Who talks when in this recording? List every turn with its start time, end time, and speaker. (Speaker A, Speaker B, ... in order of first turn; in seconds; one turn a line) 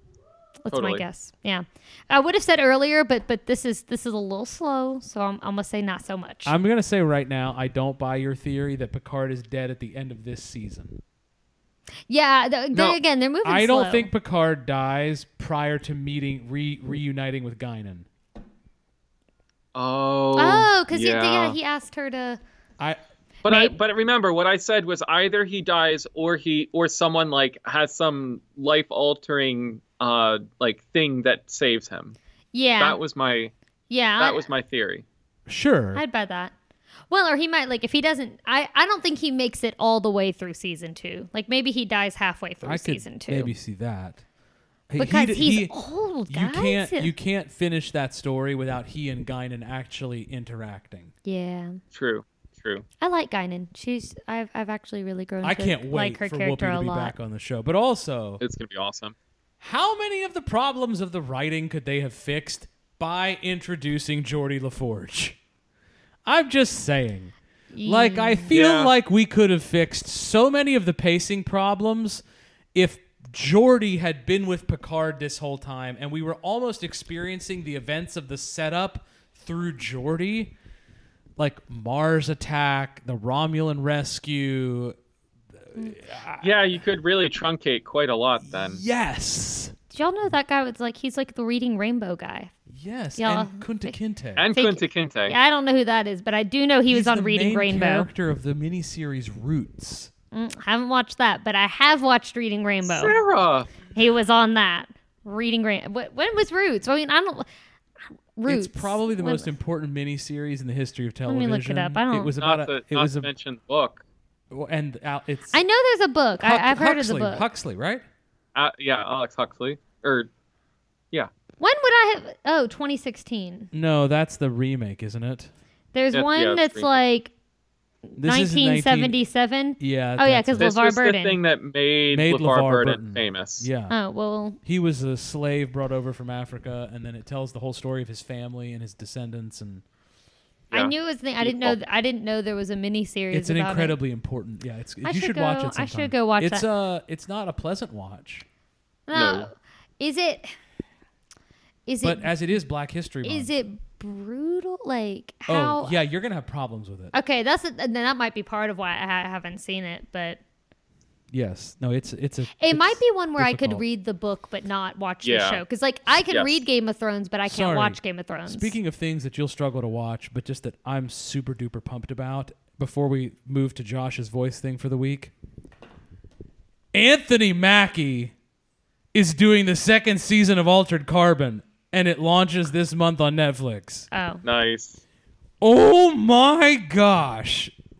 Speaker A: 0.6-6.5
Speaker B: 0.7-1.0
Speaker C: 6.4-11.0
Speaker A: 12.1-14.1
Speaker B: 12.7-13.0
Speaker C: 13.4-18.1
Speaker B: 19.7-21.6
Speaker A: 20.4-22.4
Speaker B: 23.4-32.1
Speaker A: 23.4-23.7
Speaker A: 32.5-33.0
Speaker B: 32.8-33.5
Speaker A: 33.9-34.5
Speaker B: 34.2-35.0
Speaker C: 35.5-36.0
Speaker A: 35.9-36.5
Speaker A: 37.1-43.5
Speaker C: 42.6-44.2
Speaker C: 44.9-45.7
Speaker A: 45.0-47.1
Speaker C: 46.3-51.1
Speaker A: 51.2-51.8
Speaker B: 51.9-52.9
Speaker A: 53.0-57.1
Speaker C: 55.4-58.4
Speaker B: 58.4-59.1
Speaker C: 59.6-65.4
Speaker C: 66.2-72.2
Speaker A: 67.7-68.5
Speaker B: 68.5-68.9
Speaker C: 72.7-80.5
Speaker C: 81.4-85.0
Speaker C: 85.7-86.5
Speaker B: 86.4-88.8
Speaker C: 88.4-89.7
Speaker A: 89.9-92.5
Speaker C: 92.7-94.5
Speaker A: 93.2-93.9
Speaker B: 94.4-95.4
Speaker A: 94.5-98.1
Speaker C: 96.9-100.1
Speaker A: 100.3-103.2
Speaker B: 102.8-103.7
Speaker A: 103.9-107.5
Speaker A: 108.3-109.5
Speaker C: 108.5-113.3
Speaker A: 111.2-112.3
Speaker B: 112.4-114.0
Speaker C: 114.5-115.6
Speaker A: 115.5-117.4
Speaker C: 116.4-118.0
Speaker B: 118.5-120.3
Speaker A: 121.6-123.7
Speaker C: 123.7-125.5
Speaker A: 125.9-127.3
Speaker B: 126.1-126.9
Speaker A: 128.1-131.4
Speaker C: 128.2-129.2
Speaker C: 129.8-130.7
Speaker B: 130.6-133.7
Speaker C: 132.1-133.9
Speaker A: 133.9-134.6
Speaker C: 134.6-139.8
Speaker B: 140.7-141.8
Speaker A: 140.7-144.0
Speaker C: 143.3-148.4
Speaker A: 145.0-146.7
Speaker A: 149.1-150.5
Speaker B: 149.1-149.5
Speaker A: 151.9-152.3
Speaker C: 152.0-153.5
Speaker A: 153.2-155.9
Speaker C: 155.5-157.1
Speaker A: 157.1-160.4
Speaker C: 161.3-163.8
Speaker A: 162.6-168.7
Speaker B: 165.2-165.6
Speaker B: 166.3-166.6
Speaker C: 167.4-175.3
Speaker C: 176.9-178.3
Speaker C: 179.1-184.1
Speaker A: 184.1-184.4
Speaker B: 184.4-185.0
Speaker C: 185.6-187.7